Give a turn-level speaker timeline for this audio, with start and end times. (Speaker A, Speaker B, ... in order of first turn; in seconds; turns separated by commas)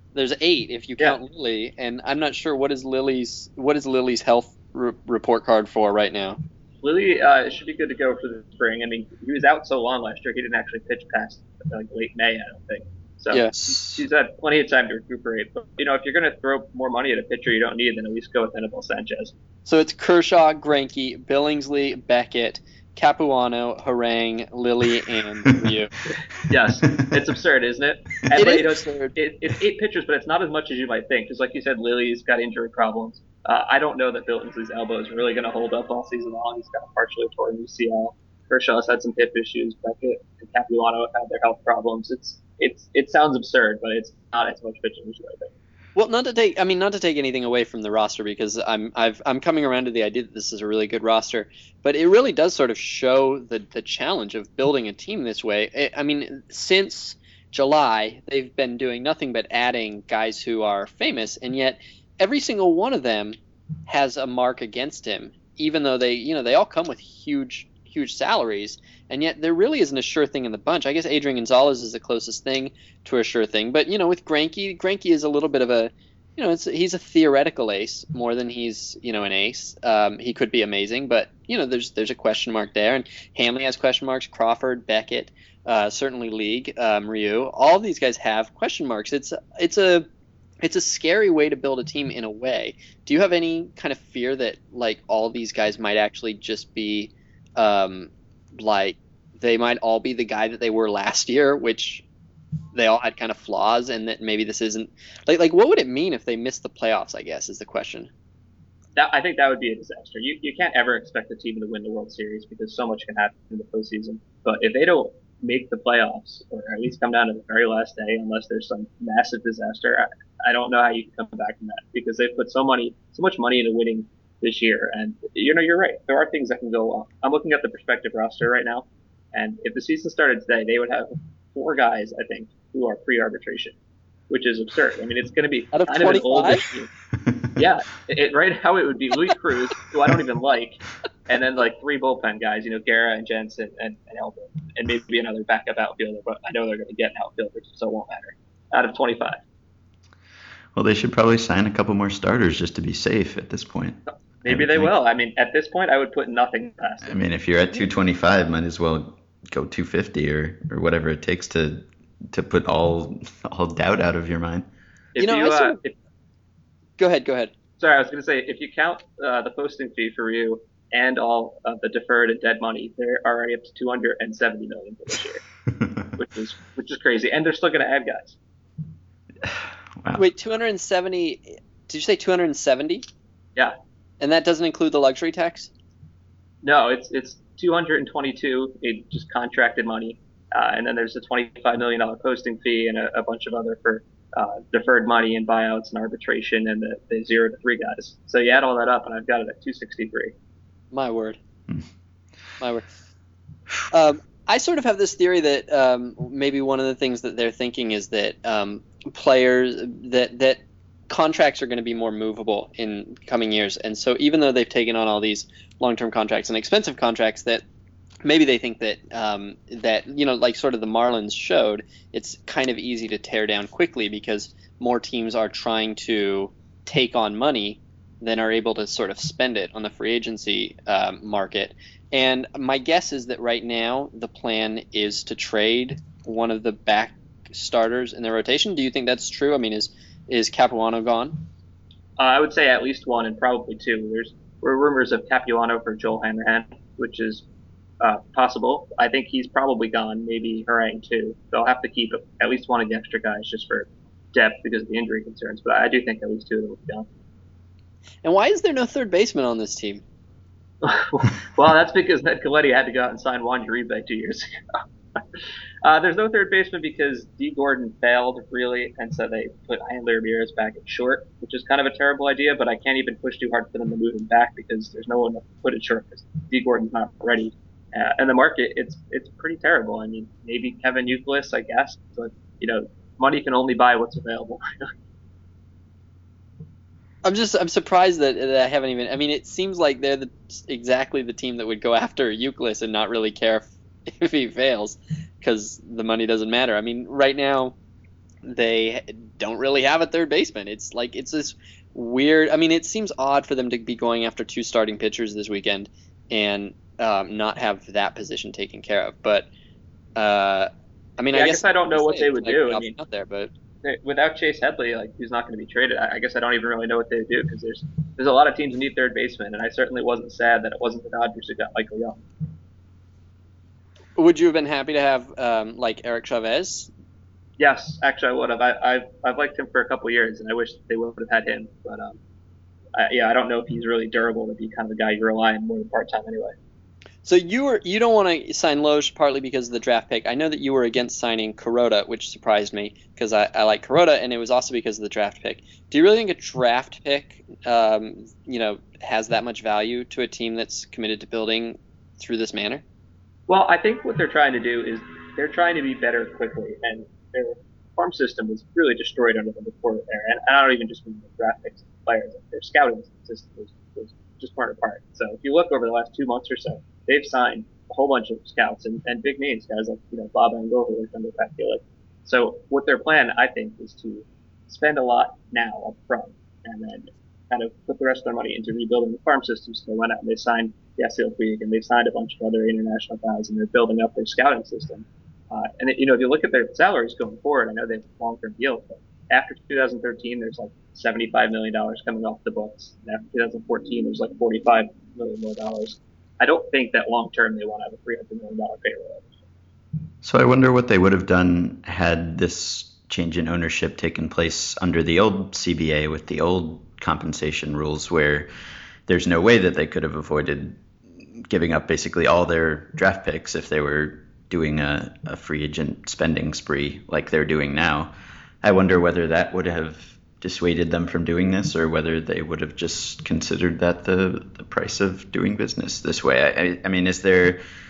Speaker A: 0.1-6.4, Speaker B: 6.8-19.3, Speaker C: 13.5-14.1, Speaker A: 19.6-25.9, Speaker B: 26.4-45.5, Speaker A: 28.3-29.1, Speaker A: 45.9-90.1, Speaker A: 90.6-102.0, Speaker A: 102.7-108.1, Speaker B: 109.0-133.7, Speaker B: 134.3-136.9, Speaker A: 135.7-136.6, Speaker B: 137.5-149.4, Speaker C: 150.7-154.9, Speaker B: 154.4-157.2, Speaker C: 157.0-164.7, Speaker B: 165.1-165.9, Speaker A: 165.2-165.8, Speaker A: 167.0-167.5, Speaker B: 167.8-175.4, Speaker B: 176.1-178.3, Speaker C: 179.4-180.2, Speaker A: 180.1-183.0, Speaker A: 184.2-185.7, Speaker B: 186.6-200.3, Speaker A: 200.9-201.4, Speaker A: 202.6-202.9, Speaker A: 203.9-217.6, Speaker A: 218.2-241.4, Speaker B: 242.2-247.4, Speaker B: 248.0-257.1, Speaker A: 258.2-260.0, Speaker B: 260.8-284.6, Speaker A: 287.2-297.7, Speaker A: 298.4-309.5, Speaker A: 310.1-313.5, Speaker B: 311.3-312.9, Speaker B: 313.8-322.2, Speaker A: 324.1-326.9, Speaker B: 327.6-332.2, Speaker B: 332.9-336.5, Speaker A: 337.2-352.8, Speaker B: 353.5-399.3, Speaker C: 400.2-408.5, Speaker C: 409.1-410.8, Speaker C: 411.4-418.1, Speaker C: 418.6-427.6